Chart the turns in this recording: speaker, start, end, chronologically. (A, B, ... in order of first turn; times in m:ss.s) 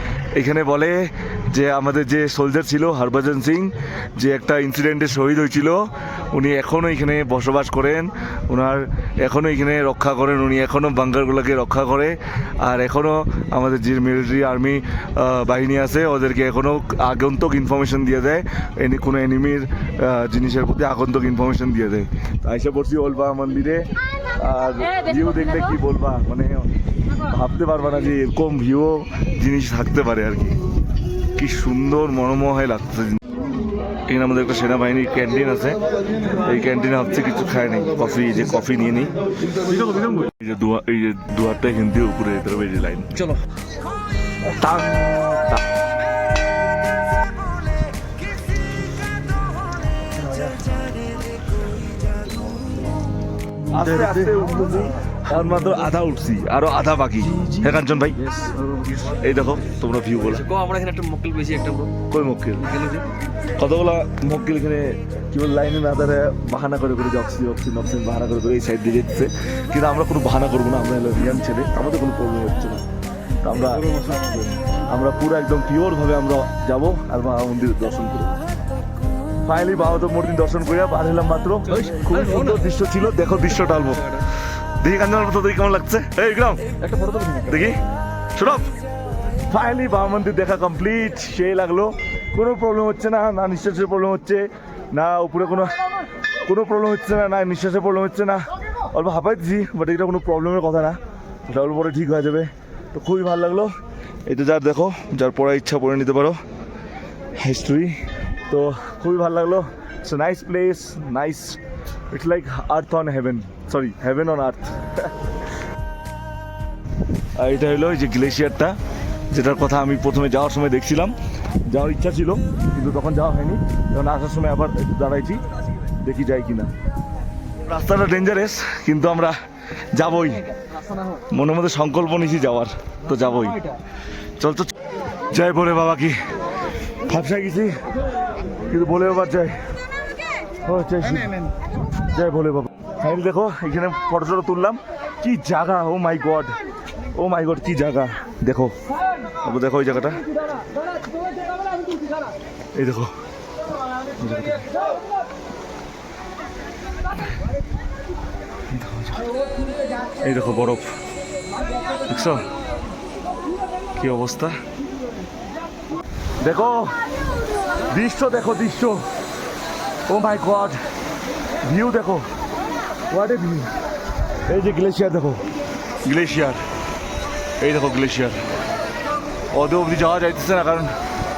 0:00.3-0:26.7 A
0:27.2-0:30.6 A
0:31.4-0:33.2 A
0:34.1-0:35.8 A
0:36.3-0:39.1 A
0:39.6-0:40.3 B
0:40.3-0:43.3 A
0:44.5-0:45.6 A
0:50.1-0:50.6 B
0:53.7-0:54.5 B
0:53.7-0:58.2 A
0:57.4-0:59.3 B
0:59.0-1:00.4 A
1:00.2-1:01.9 B
1:02.1-1:02.7 A
1:02.6-1:03.1 B
1:03.6-1:12.8 A
1:13.4-1:13.9 A
1:13.7-1:14.5 B
1:14.9-1:18.4 A
1:19.4-1:24.3 A
1:21.7-1:22.6 B
1:24.8-1:26.6 A
1:26.8-1:27.7 B
1:27.5-1:27.8 A
1:28.4-1:28.7 A
1:29.5-1:35.8 A
1:36.4-1:43.7 A
1:44.3-1:46.4 A
1:47.4-1:48.0 A
1:48.5-1:51.6 A
1:52.1-1:55.1 A
1:57.4-1:58.8 A
1:59.3-2:01.2 A
2:01.7-2:05.4 A
2:06.0-2:06.7 A
2:07.7-2:09.4 A
2:09.9-2:10.5 A
2:11.3-2:13.7 A
2:14.4-2:14.7 A
2:15.3-2:16.2 A
2:17.1-2:17.8 A
2:18.7-2:19.6 A
2:20.6-2:21.5 A
2:22.1-2:26.6 A
2:27.2-2:28.8 A
2:29.4-2:30.2 A
2:31.2-2:32.2 B
2:32.8-2:33.1 A
2:34.2-2:34.7 A
2:38.7-2:39.3 A
2:40.2-2:40.9 A
2:42.1-2:42.5 A
2:44.0-2:44.6 A
2:46.4-2:47.0 A
2:47.8-2:49.0 A
2:50.1-2:50.8 A
2:51.6-2:52.3 A
2:53.1-2:53.7 A
2:54.5-2:55.4 A
2:56.0-2:56.6 A
2:57.6-2:58.4 A
2:59.5-3:00.9 A